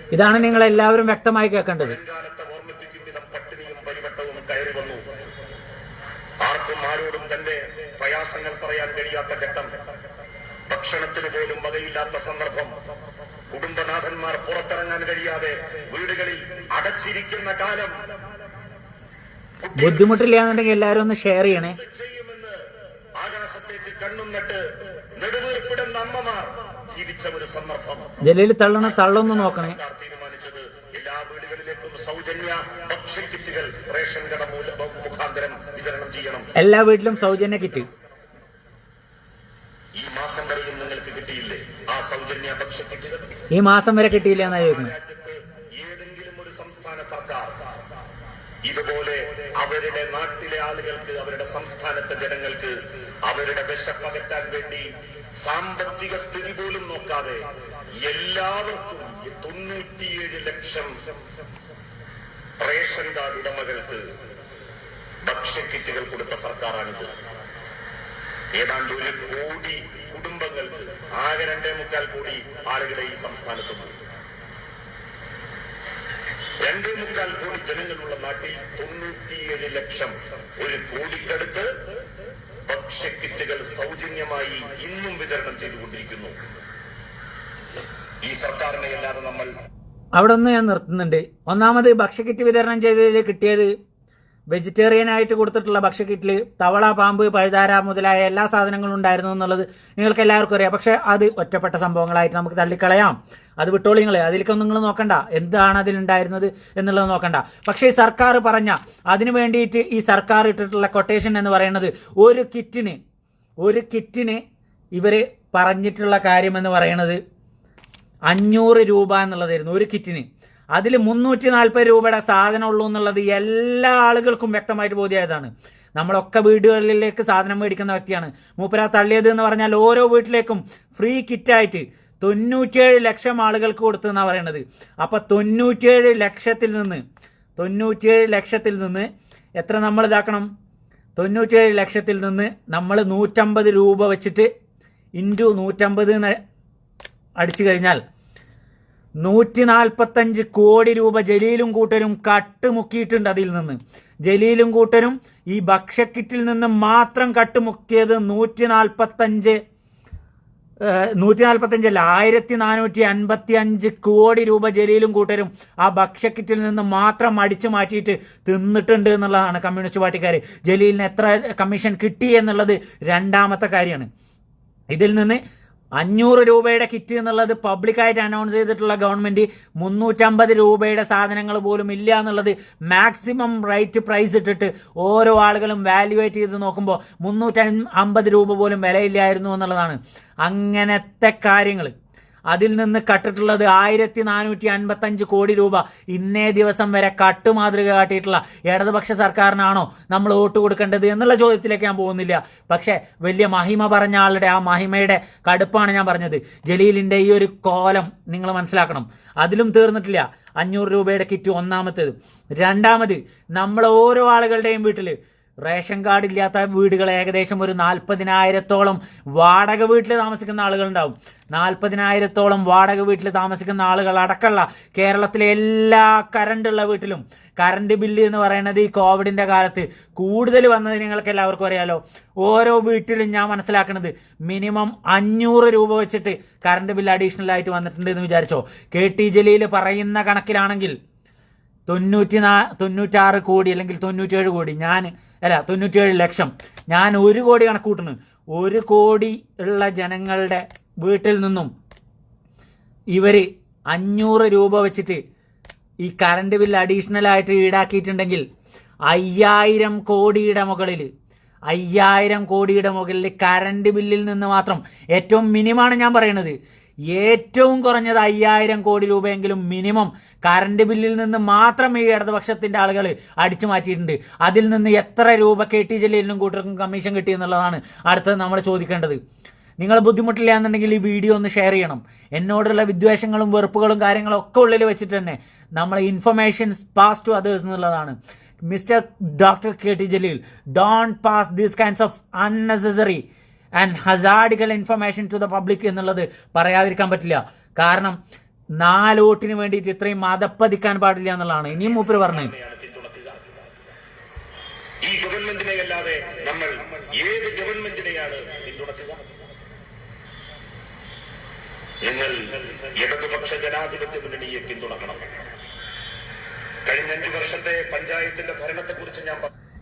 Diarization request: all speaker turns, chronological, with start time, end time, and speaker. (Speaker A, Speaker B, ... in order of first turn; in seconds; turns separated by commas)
Speaker A: 0.1-2.0, Speaker B: 1.8-5.0, Speaker B: 6.4-9.7, Speaker B: 10.7-12.7, Speaker B: 13.5-18.1, Speaker B: 19.6-20.3, Speaker A: 19.8-21.8, Speaker B: 21.6-22.6, Speaker B: 23.2-24.6, Speaker B: 25.2-28.1, Speaker A: 28.2-29.8, Speaker B: 28.8-36.5, Speaker A: 36.6-37.9, Speaker B: 40.0-43.3, Speaker A: 43.5-44.9, Speaker B: 44.2-47.5, Speaker B: 48.6-52.8, Speaker B: 53.3-54.9, Speaker B: 55.4-57.5, Speaker B: 58.0-61.0, Speaker B: 62.6-64.0, Speaker B: 65.2-67.1, Speaker B: 68.5-74.0, Speaker B: 76.6-81.7, Speaker B: 82.7-86.4, Speaker B: 88.2-89.5, Speaker A: 90.2-93.7, Speaker A: 94.5-113.0, Speaker A: 113.6-114.4, Speaker A: 115.0-117.2, Speaker A: 118.3-137.0, Speaker A: 137.6-139.1, Speaker A: 139.6-140.5, Speaker A: 141.2-144.5, Speaker A: 145.2-146.4, Speaker A: 147.4-148.0, Speaker A: 149.2-159.6, Speaker A: 160.8-174.1, Speaker A: 174.9-175.4, Speaker A: 176.0-191.9, Speaker A: 192.5-240.9, Speaker A: 241.9-251.7, Speaker A: 253.1-255.2, Speaker A: 256.0-258.4, Speaker A: 259.1-261.1, Speaker A: 261.7-266.6, Speaker A: 267.1-279.2, Speaker A: 279.8-288.2, Speaker A: 288.7-293.2, Speaker A: 293.8-298.2, Speaker A: 298.8-302.5, Speaker B: 301.8-303.5, Speaker B: 305.0-309.2, Speaker B: 312.0-315.2, Speaker B: 316.9-319.5